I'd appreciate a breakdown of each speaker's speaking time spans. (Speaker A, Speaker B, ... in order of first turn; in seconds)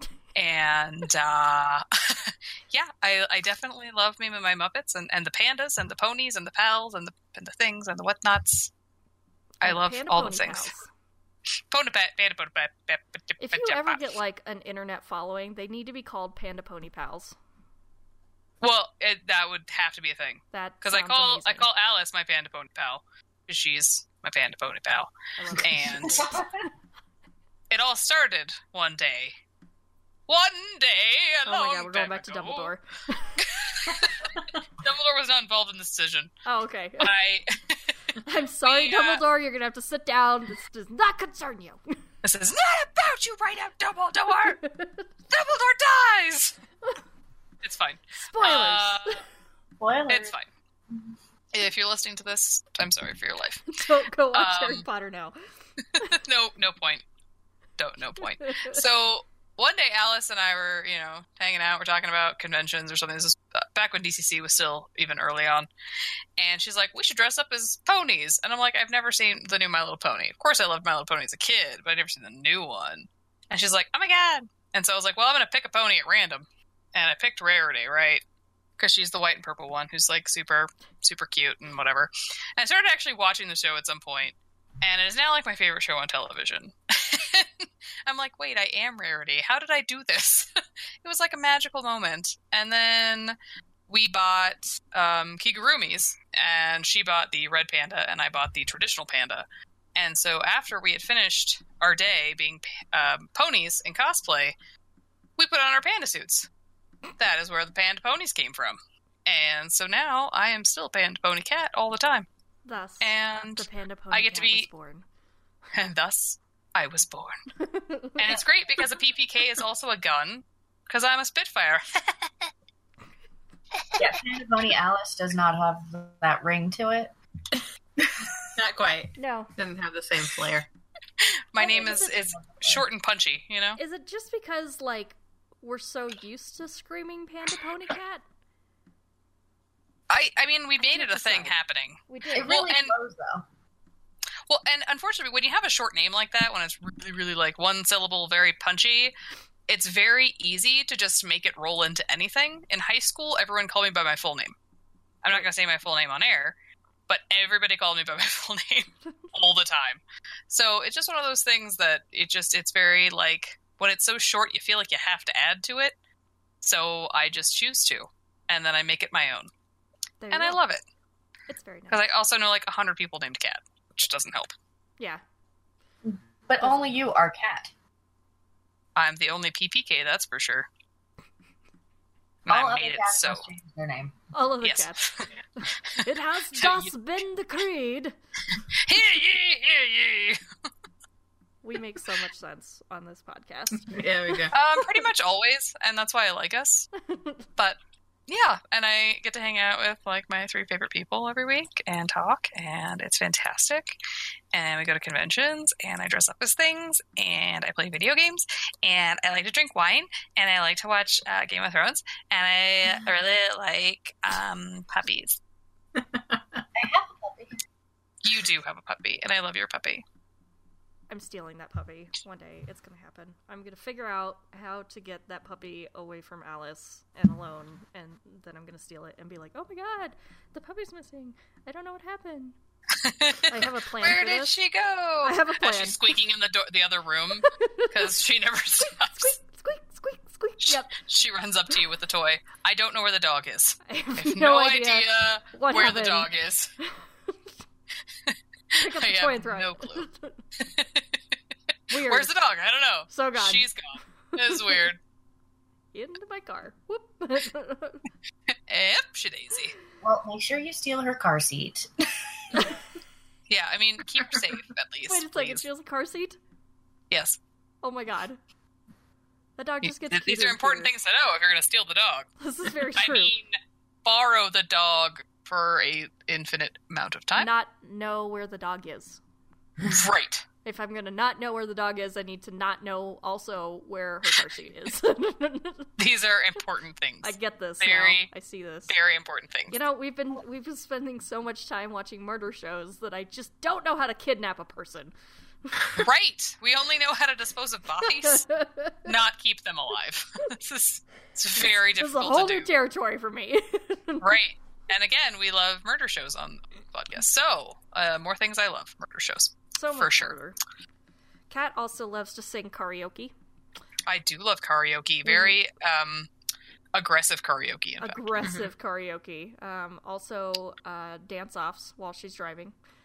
Speaker A: 0.4-8.7, 9.6-10.7, 11.7-14.1, 18.6-26.3, 27.7-29.4, 30.3-32.7, 33.4-36.3, 37.0-39.2, 42.2-44.6, 45.3-46.6, 47.6-49.2, 50.1-50.5, 51.5-53.8, 54.3-54.9, 56.0-57.0, 57.8-65.7, 66.4-78.2, 78.8-90.5, 91.0-93.4, 93.9-104.5, 105.4-106.5, 107.2-112.3, 113.0-114.7, 115.7-117.4, 118.2-122.3, 131.2-133.8, 140.1-142.9, 144.5-149.1, 149.7-154.5, 155.2-156.6, 157.1-165.9, 166.6-169.5, 170.3-170.8, 171.9-174.5, 179.0-180.7, 182.5-183.5, 184.6-185.3, 186.6-186.9, 188.8-190.4, 194.5-196.9, 197.6-204.0, 204.5-215.4, 218.2-220.0, 233.0-239.3, 240.6-246.7, 248.3-250.1, 250.6-251.1, 251.9-255.0, 258.7-259.7, 263.5-265.6, 267.1-267.4, 269.8-272.3, 273.0-277.5, 279.9-280.4, 286.0-288.3, 288.9-289.8, 295.9-298.5, 299.1-302.7, 304.2-310.4, 314.1-316.3, 316.9-318.3
Speaker B: 9.6-10.9, 13.4-17.4, 20.5-21.7, 25.4-26.5, 31.5-34.0, 36.5-37.1, 38.2-42.0, 44.7-45.0, 48.1-49.2, 53.7-55.4, 58.4-58.8, 112.7-115.0, 117.6-118.4, 129.2-129.5, 131.6-132.3, 133.8-138.2, 140.8-141.6, 142.1-142.7, 170.2-170.6, 171.5-172.1, 176.6-177.0, 184.3-188.1, 191.6-194.0, 197.1-197.4, 221.1-232.6, 233.5-234.6, 235.2-236.0, 237.4-238.2, 238.8-240.9, 243.9-246.3, 248.8-250.4, 251.9-252.3, 253.1-253.7, 254.3-254.8, 255.9-258.0, 265.1-266.4, 267.8-268.4, 269.6-270.9, 272.4-273.3, 277.4-279.2, 280.6-285.9, 287.2-288.9, 289.7-295.1, 295.7-296.1, 298.2-299.1, 302.0-304.4, 309.7-310.6, 311.5-313.3, 315.2-315.6, 318.0-322.8
Speaker C: 26.2-26.5, 49.8-50.3, 124.0-127.1, 132.5-132.8, 142.3-143.4, 176.1-177.7, 182.5-184.1, 216.8-217.6, 260.0-262.3
Speaker D: 128.1-130.7, 193.8-194.6, 215.9-216.6, 318.4-318.7